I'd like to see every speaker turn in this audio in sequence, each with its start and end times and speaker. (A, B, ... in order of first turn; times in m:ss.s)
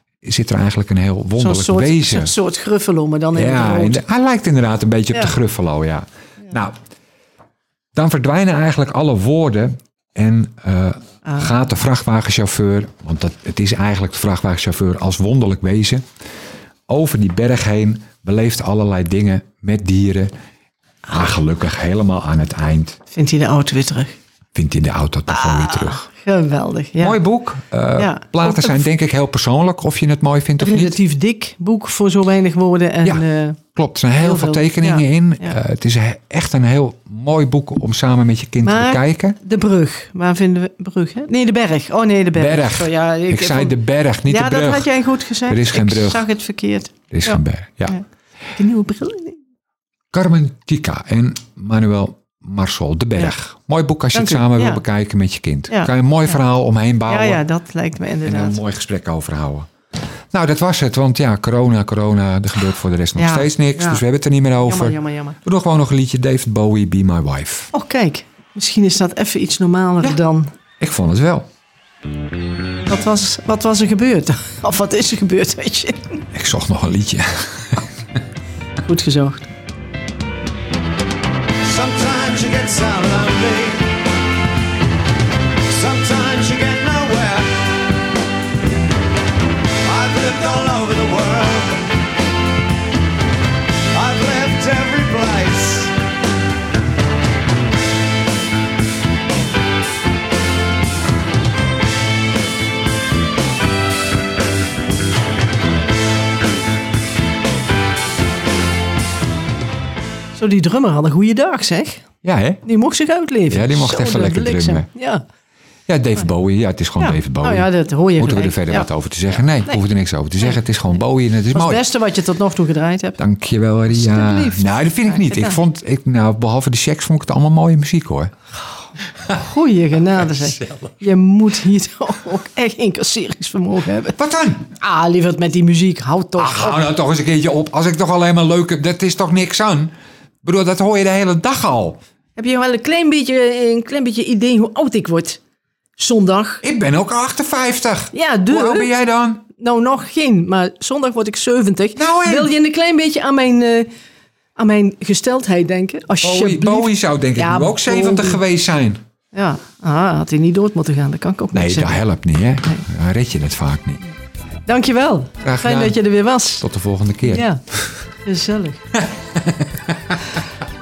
0:00.2-0:02.3 A
0:01.4-0:04.0 B
0:03.3-0:06.7 A
0:07.9-0:16.0 A
0:16.9-0:20.3 A
0:21.1-0:23.0 A
0:23.1-0:24.1 B
0:24.5-0:26.1 A
0:25.3-0:27.2 B
0:27.0-0:31.0 A
0:28.0-0:28.8 B
0:30.6-0:33.6 B
0:33.0-0:39.4 A
0:34.2-0:35.5 B
0:38.6-0:48.0 B
0:42.3-0:44.9 A
0:45.5-0:46.3 A
0:47.1-0:48.0 A
0:48.6-0:49.4 B
0:50.1-0:57.4 A
0:54.1-0:54.8 B
0:57.1-0:58.6 B
0:58.2-0:59.7 A
1:00.3-1:07.7 A
1:03.2-1:04.0 B
1:04.6-1:05.4 B
1:07.7-1:10.5 B
1:10.8-1:11.4 A
1:12.9-1:16.2 B
1:16.3-1:17.8 A
1:18.8-1:19.5 B
1:21.6-1:23.9 C
1:25.7-1:27.7 C
1:29.8-1:31.9 C
1:33.9-1:36.0 C
1:50.3-1:52.0 B
1:52.2-1:52.6 A
1:52.6-1:55.2 B
1:53.5-1:54.9 A
1:55.9-2:01.8 A
1:57.0-1:58.9 B
2:01.5-2:03.2 B
2:03.2-2:08.3 A
2:03.9-2:05.6 B
2:09.3-2:14.2 B
2:14.2-2:14.6 A
2:14.7-2:16.8 B
2:16.4-2:19.9 A
2:20.4-2:22.0 A
2:22.4-2:25.4 B
2:26.0-2:26.6 B
2:26.6-2:29.4 A
2:28.1-2:28.9 B
2:29.5-2:33.9 B
2:32.0-2:32.5 A
2:34.6-2:38.4 B
2:36.2-2:39.0 A
2:39.3-2:42.0 B
2:41.5-2:44.0 A
2:44.7-2:46.6 B
2:45.4-2:46.0 A
2:46.6-2:47.5 A
2:47.2-2:47.6 B
2:48.2-2:48.8 B